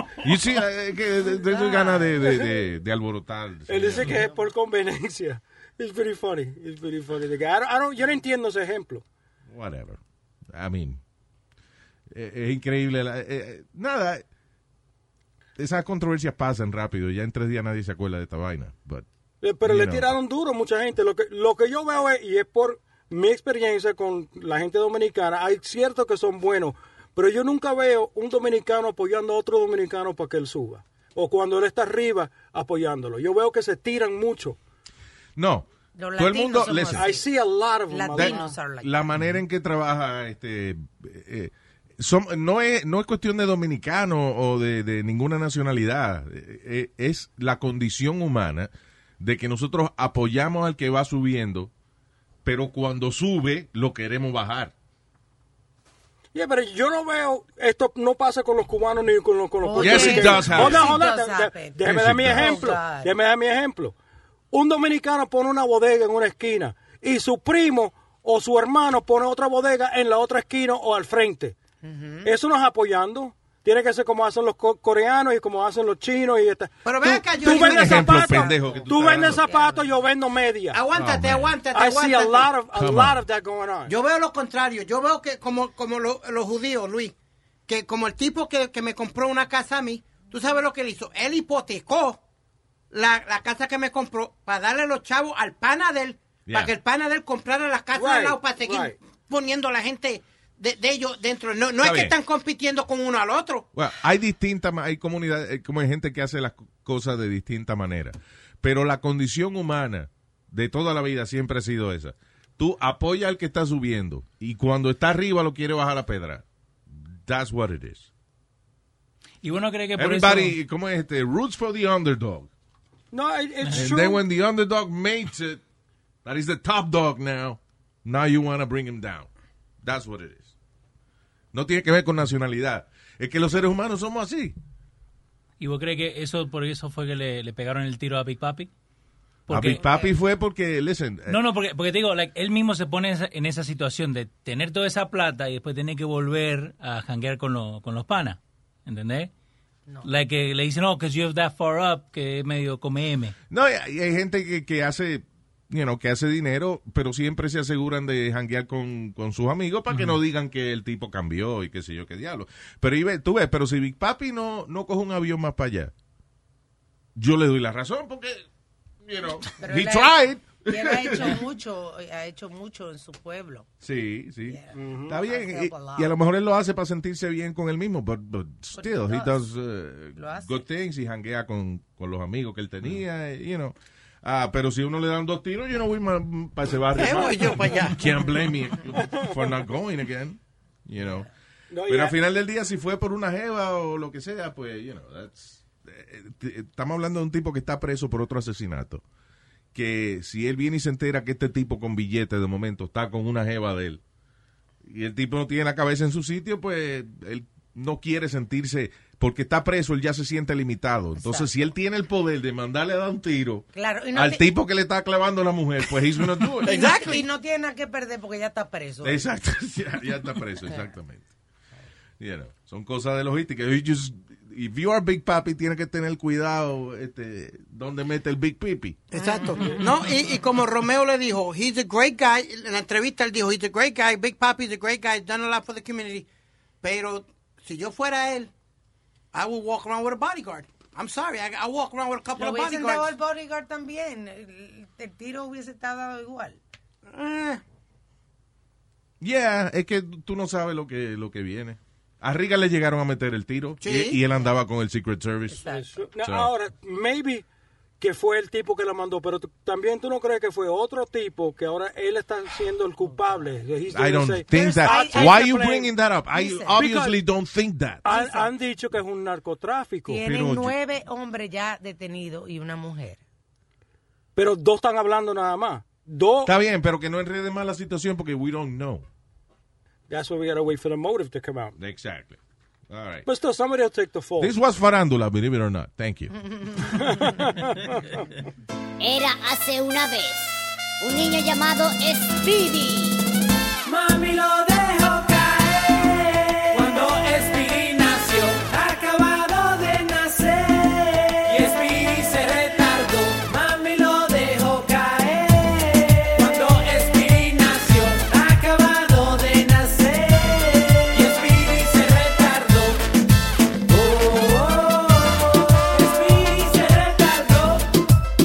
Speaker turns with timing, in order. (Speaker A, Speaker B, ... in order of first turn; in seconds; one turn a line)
Speaker A: 0.2-4.2
Speaker B: 1.4-2.6
Speaker B: 3.7-9.1
Speaker C: 4.0-4.4
Speaker A: 9.5-11.0
Speaker A: 12.1-14.2
Speaker A: 15.6-19.1
Speaker B: 19.4-34.6
Speaker A: 19.6-20.1
Speaker A: 35.4-37.1
Speaker C: 36.0-37.3
Speaker B: 36.9-38.6
Speaker C: 37.9-39.0
Speaker A: 38.1-51.7
Speaker A: 52.5-54.7
Speaker B: 56.3-64.0
Speaker C: 59.6-63.1
Speaker A: 59.8-61.0
Speaker A: 61.8-62.6
Speaker B: 64.5-71.6
Speaker C: 71.8-72.3
Speaker B: 72.2-80.8
Speaker D: 76.8-78.2
Speaker A: 77.5-79.4
Speaker C: 78.2-79.9
Speaker D: 80.7-82.5
Speaker A: 80.9-81.6
Speaker B: 81.7-83.9
Speaker A: 82.7-83.2
Speaker D: 83.9-87.1
Speaker D: 87.7-92.2
Speaker D: 92.9-103.7
Speaker A: 96.5-96.7
Speaker B: 97.9-99.0
Speaker A: 101.8-102.1
Speaker A: 103.7-118.1
Speaker E: 119.4-120.6
Speaker A: 120.0-122.5
Speaker B: 123.1-124.2
Speaker A: 123.7-125.6
Speaker A: 126.2-129.3
Speaker A: 129.8-130.5
Speaker A: 131.5-134.6
Speaker E: 135.6-138.7
Speaker E: 139.5-139.8
Speaker A: 139.5-141.4
Speaker C: 139.7-140.1
Speaker E: 141.3-149.3
Speaker E: 150.0-153.3
Speaker A: 153.5-165.9
Speaker E: 159.9-160.2
Speaker A: 167.2-168.4
Speaker A: 169.0-171.4
Speaker C: 169.6-173.7
Speaker A: 173.8-191.3
Speaker C: 174.5-176.1
Speaker B: 174.7-175.2
Speaker C: 178.8-179.4
Speaker C: 180.2-180.7
Speaker D: 187.0-188.0
Speaker B: 189.0-189.3
Speaker B: 191.7-192.2
Speaker A: 191.9-199.0
Speaker A: 199.7-204.0
Speaker A: 204.8-216.8
Speaker C: 211.2-211.5
Speaker C: 213.8-214.4
Speaker D: 216.6-217.2
Speaker C: 216.6-219.3
Speaker A: 219.0-221.3
Speaker A: 222.2-229.0
Speaker D: 229.1-236.3
Speaker C: 229.1-229.9
Speaker D: 236.8-238.5
Speaker D: 239.3-243.1
Speaker C: 242.4-246.6
Speaker D: 247.1-247.6
Speaker A: 249.2-255.7
Speaker D: 253.8-254.2
Speaker C: 255.5-256.1
Speaker B: 255.7-257.4
Speaker A: 256.2-256.5
Speaker B: 258.0-265.9
Speaker C: 263.1-263.4
Speaker A: 263.9-268.1
Speaker C: 264.5-265.6
Speaker C: 266.3-266.9
Speaker B: 266.8-267.2
Speaker B: 268.1-270.2
Speaker C: 268.1-268.5
Speaker C: 270.1-273.2
Speaker A: 270.2-270.8
Speaker B: 274.4-276.5
Speaker A: 276.4-279.1
Speaker B: 280.1-281.8
Speaker A: 281.8-282.4
Speaker A: 282.9-283.3
Speaker B: 283.3-284.5
Speaker A: 284.4-286.3
Speaker B: 287.0-288.2
Speaker F: 289.0-293.2
Speaker G: 293.9-313.0
Speaker G: 313.9-317.9